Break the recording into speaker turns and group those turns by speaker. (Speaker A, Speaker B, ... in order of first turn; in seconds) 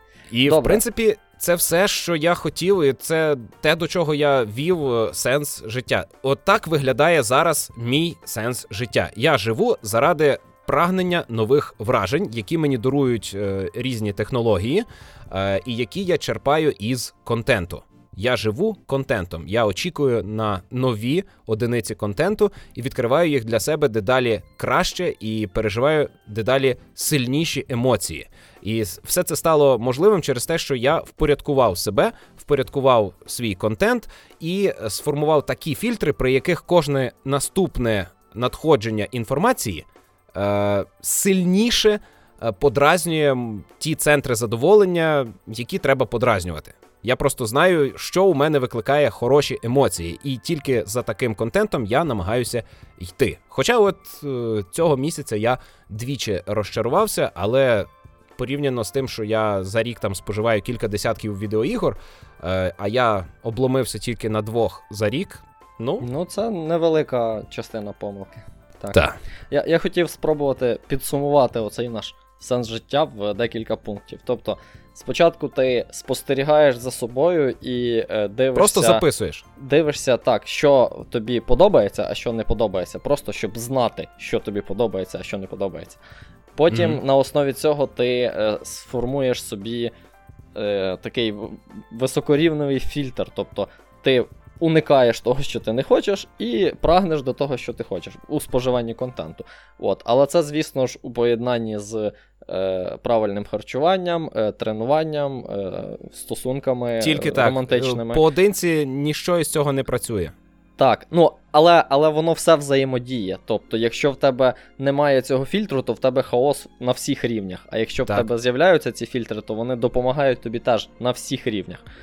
Speaker A: 0.3-66.1, 68.9-69.2, 78.5-79.4, 86.7-87.0, 107.0-110.3
Speaker B: 0.5-0.8, 66.0-79.0, 79.6-86.0, 86.5-89.9, 90.5-108.2, 110.8-121.8